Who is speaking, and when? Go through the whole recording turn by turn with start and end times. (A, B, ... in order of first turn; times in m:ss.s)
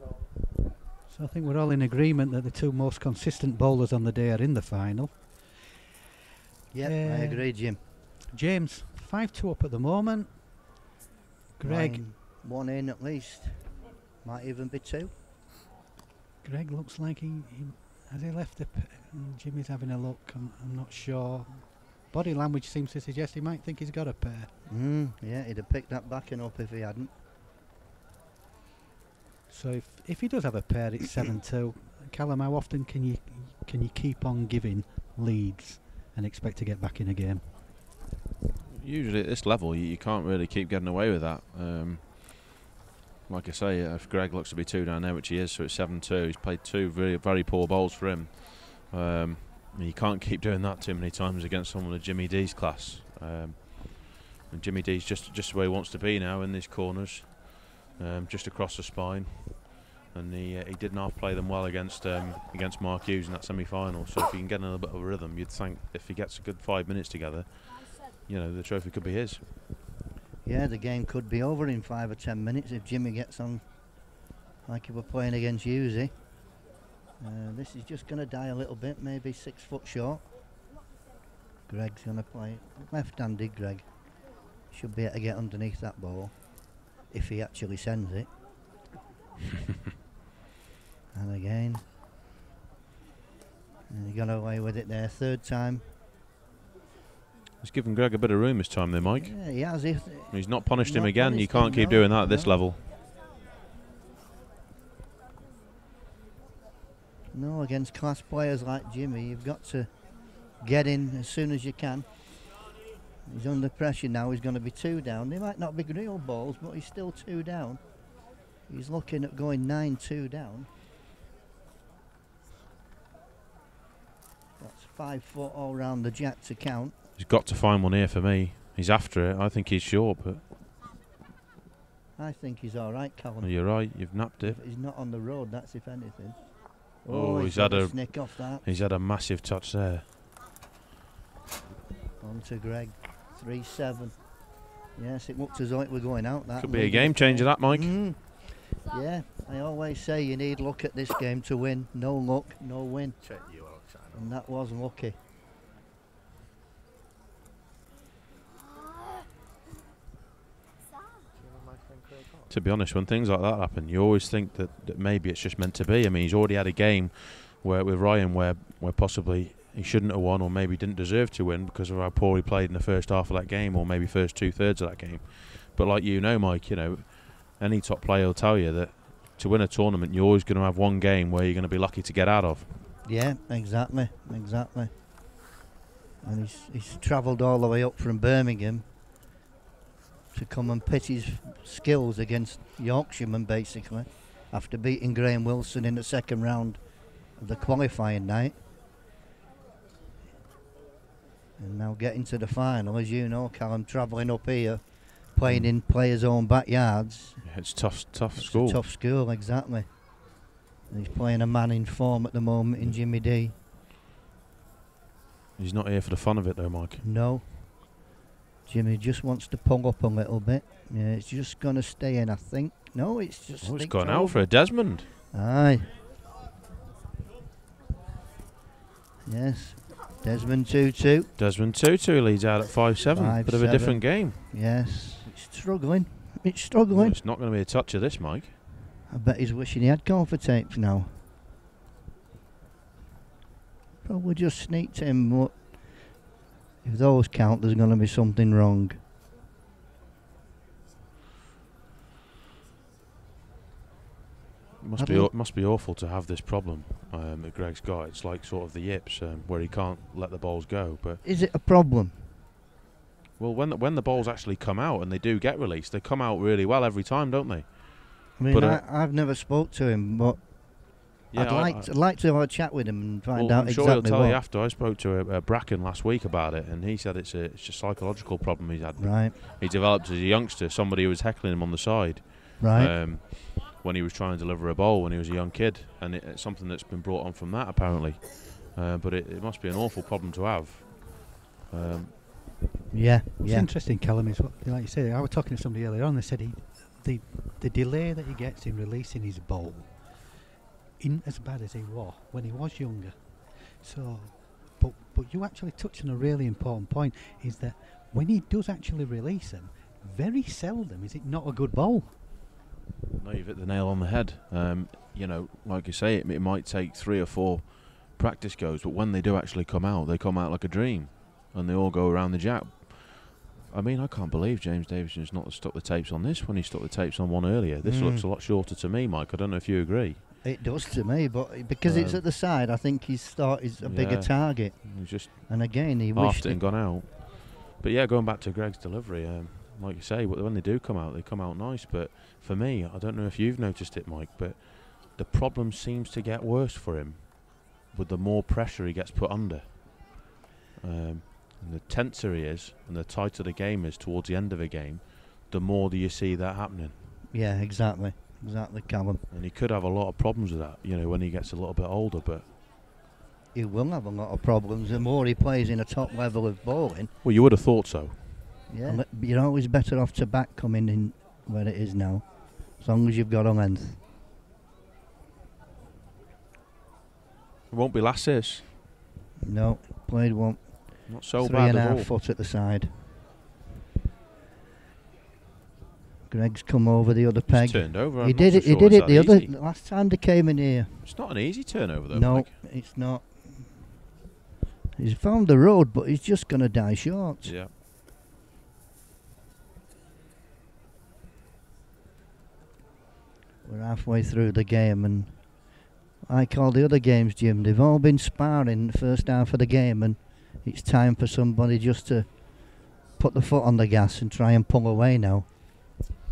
0:01.1-0:05.6 A
0:06.7-0:07.8 B
0:06.8-0:10.4 A
0:11.6-0:12.1 A
0:11.6-0:15.1 B
0:16.4-0:24.5 A
0:24.6-0:27.1 B
0:29.5-0:37.6 A
0:38.7-0:42.6 C
0:43.3-1:09.4 C
1:10.4-1:16.1 B
1:17.2-1:20.2 B
1:21.7-1:28.3 B
1:31.1-1:31.9 B
1:33.9-1:35.9 B
1:37.6-1:39.5 C
1:39.2-1:42.7 B
1:40.3-1:42.8 C
1:47.3-1:52.5 B
1:53.2-1:58.0 B
1:58.6-2:00.7 B
2:04.6-2:06.9 B
2:07.2-2:10.5 C
2:12.2-2:18.6 B
2:13.4-2:14.6 C
2:17.1-2:20.0 C
2:22.2-2:24.4 B
2:24.9-2:33.2 B
2:26.6-2:28.0 C
2:34.1-2:35.2 B
2:42.5-3:02.7 C
3:03.0-3:04.9 B
3:06.2-3:08.9 B
3:10.3-3:18.6 B
3:21.6-3:27.5 B
3:25.4-3:25.7 C
3:27.4-3:28.8 C
3:28.3-3:33.5 B
3:35.6-3:37.0 C
3:37.0-3:38.0 B
3:38.6-3:46.0 B
3:43.6-3:45.1 C
3:49.2-3:51.3 B
3:51.4-3:54.4 C
3:53.1-3:57.2 B
3:56.9-3:58.5 C
3:59.1-4:01.2 B
4:04.0-4:06.2 B
4:06.8-4:09.0 B
4:14.8-4:21.2 C
4:15.0-4:15.3 B
4:21.2-4:22.4 B
4:23.4-4:28.8 C
4:28.4-4:34.4 B
4:31.3-4:31.9 C
4:33.3-4:52.1 C
4:39.0-4:39.4 B
4:42.6-4:43.0 B
4:52.9-4:53.7 B
4:53.4-5:00.3 A
5:01.0-5:12.2 A
5:13.2-5:30.2 C
5:27.8-5:28.3 B
5:30.4-5:36.7 B
5:31.8-5:32.2 C
5:33.8-5:50.2 C
5:50.8-5:57.0 C
5:57.3-5:59.2 B
5:59.3-6:02.4 C
6:03.5-6:07.1 B
6:07.2-6:08.7 C
6:08.7-6:14.0 B
6:17.7-6:18.6 C
6:19.4-6:23.1 B
6:21.1-6:22.1 C
6:26.3-6:31.3 B
6:27.5-6:29.5 C
6:31.0-6:32.5 C
6:32.1-6:34.0 B
6:35.0-6:37.6 B
6:37.4-6:37.7 C
6:43.6-6:55.5 B